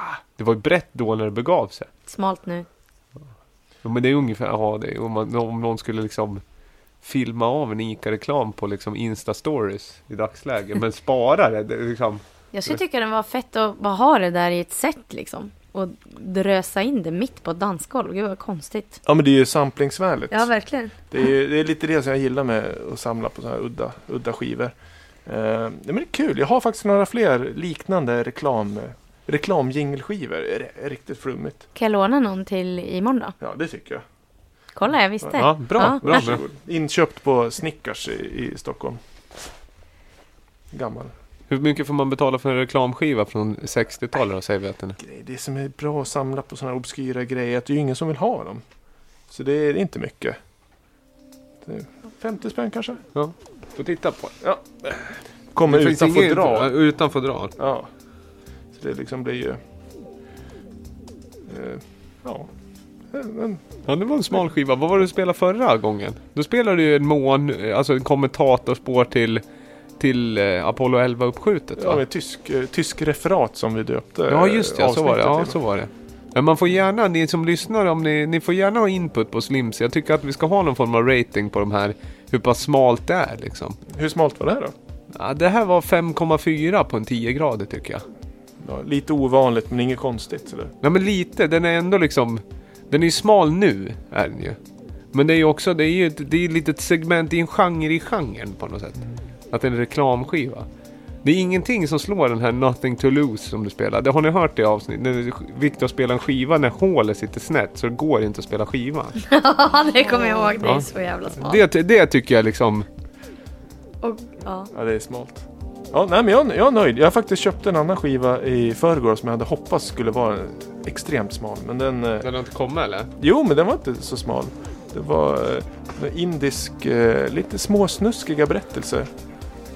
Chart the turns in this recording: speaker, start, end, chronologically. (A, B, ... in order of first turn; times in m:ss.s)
0:00.4-0:01.9 A
0:02.1-0:02.6 B
0:03.8-0:06.4 A
0:07.0-0:12.2 A
0:12.5-0:19.0 B
0:19.0-0:20.5 C
0:20.3-0:20.9 B
0:21.1-0:24.7 C
0:25.2-0:31.7 C
0:31.8-0:33.3 B
0:33.4-0:34.0 C
0:34.7-0:36.2 B
0:35.2-0:39.0 C
0:35.4-0:36.4 A
0:40.7-0:41.1 C
0:41.5-0:45.0 A
0:45.0-0:48.6 C
0:49.3-0:50.4 C
0:51.6-0:53.0 C
0:53.1-0:54.4 A
0:54.4-0:56.8 C
0:55.6-0:57.5 A
0:57.6-0:57.9 C
0:58.7-0:59.6 C
1:01.5-1:02.5 C
1:03.1-1:03.6 C
1:03.8-1:09.4 A
1:10.0-1:12.0 A
1:11.8-1:15.6 C
1:14.3-1:23.8 A
1:23.9-1:24.7 C
1:25.1-1:28.0 A
1:28.6-1:30.7 C
1:30.8-1:34.6 A
1:35.1-1:40.6 A
1:41.2-1:49.2 A
1:49.2-1:51.6 B
1:50.6-1:52.9 A
1:54.0-1:54.7 B
1:54.7-2:02.3 C
2:02.2-2:03.1 A
2:03.2-2:09.1 C